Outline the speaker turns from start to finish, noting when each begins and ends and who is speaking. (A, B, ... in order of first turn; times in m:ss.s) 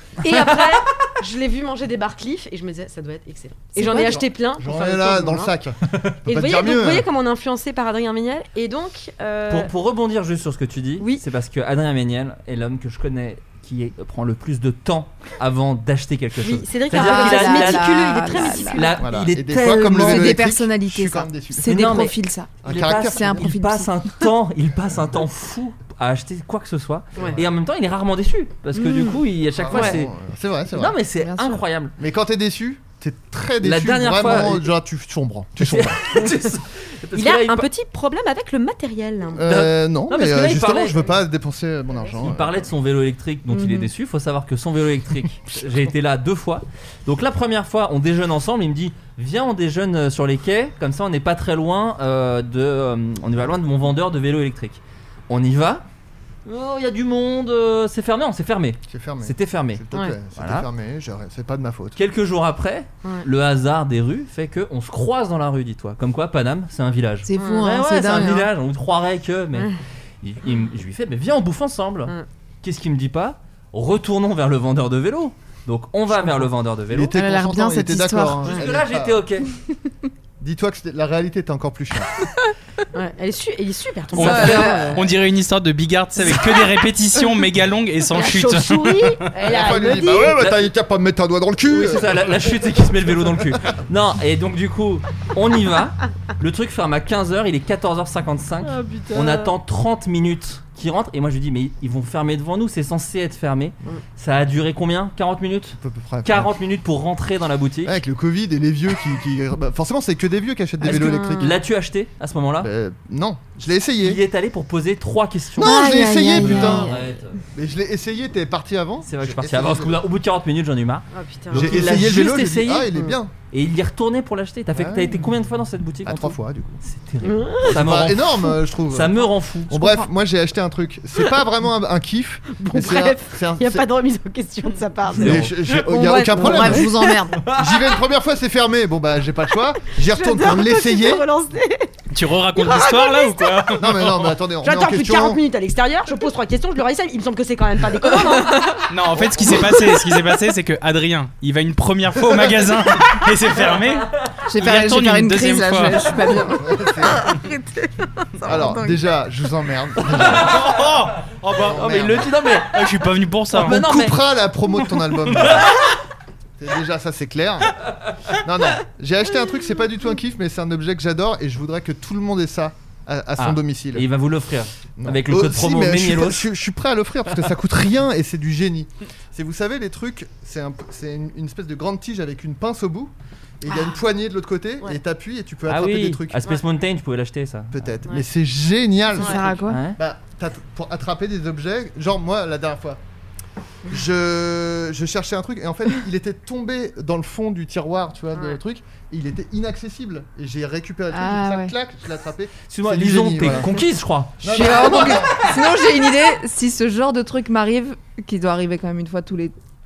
0:00.2-0:05.5 A
0:00.3-0:00.9 B
0:03.8-0:04.2 C
0:03.8-0:07.1 D
0:06.3-0:09.7 A
0:09.5-0:20.4 B
0:11.0-0:11.2 A
0:16.4-0:19.0 A
0:16.9-0:18.8 C
0:19.0-0:22.1 D
0:19.6-0:23.9 C
0:21.6-0:30.1 B
0:22.6-0:23.5 D
0:27.2-0:27.5 D
0:28.8-0:29.2 C
0:29.5-0:31.0 D
0:29.7-0:30.0 A
0:30.7-0:31.9 B
0:31.2-0:31.6 C
0:32.0-0:36.2 D
0:33.6-0:34.7 B
0:35.6-0:37.7 B
0:37.1-0:39.4 A
0:39.4-0:42.6 D
0:39.4-0:41.0 B
0:42.2-0:55.8 B
0:43.5-0:43.8 C
0:56.4-0:59.8 B
0:58.9-1:02.0 D
1:00.3-1:00.7 B
1:02.0-1:17.2 B
1:07.2-1:08.5 C
1:07.4-1:07.7 A
1:16.9-1:19.2 D
1:17.2-1:18.4 C
1:18.5-1:19.5 B
1:20.4-1:22.2 D
1:22.9-1:25.1 A
1:24.2-1:25.0 C
1:24.2-1:24.6 B
1:24.2-1:29.3 E
1:28.1-1:30.3 A
1:29.4-1:32.6 D
1:30.4-1:30.7 B
1:31.7-1:48.0 B
1:38.6-1:39.5 A
1:45.8-1:46.5 D
1:47.8-1:51.5 D
1:50.8-1:51.6 A
1:50.9-1:52.7 B
1:52.6-1:54.2 D
1:54.0-1:57.4 B
1:55.6-1:57.0 D
1:55.6-1:57.0 C
1:57.5-2:00.0 D
1:59.0-2:09.7 B
2:01.1-2:02.0 A
2:01.5-2:03.3 D
2:04.7-2:05.2 D
2:06.0-2:06.8 D
2:07.2-2:07.7 A
2:07.6-2:13.8 D
2:09.7-2:10.0 C
2:12.6-2:17.1 A
2:15.2-2:21.2 D
2:15.2-2:15.6 B
2:16.2-2:17.4 C
2:17.4-2:17.8 B
2:19.9-2:21.9 A
2:22.1-2:24.2 E
2:22.5-2:23.7 A
2:23.8-2:25.4 D
2:24.6-2:28.8 A
2:28.2-2:28.8 C
2:28.9-2:36.2 E
2:29.2-2:29.6 D
2:34.5-2:39.0 C
2:36.5-2:37.3 D
2:38.4-2:40.7 D
2:40.1-2:43.0 B
2:40.4-2:43.8 E
2:41.6-2:42.3 D
2:43.5-2:44.2 B
2:43.5-2:45.9 D
2:45.4-2:45.6 B
2:46.6-2:47.8 D
2:48.4-2:54.1 D
2:53.4-2:56.5 B
2:55.0-3:06.4 D
3:05.7-3:07.8 B
3:07.7-3:13.0 D
3:09.2-3:09.8 C
3:09.7-3:10.0 B
3:13.9-3:23.7 D
3:18.3-3:18.6 A
3:21.1-3:21.7 C
3:22.7-3:25.3 B
3:24.4-3:25.5 D
3:24.4-3:29.5 C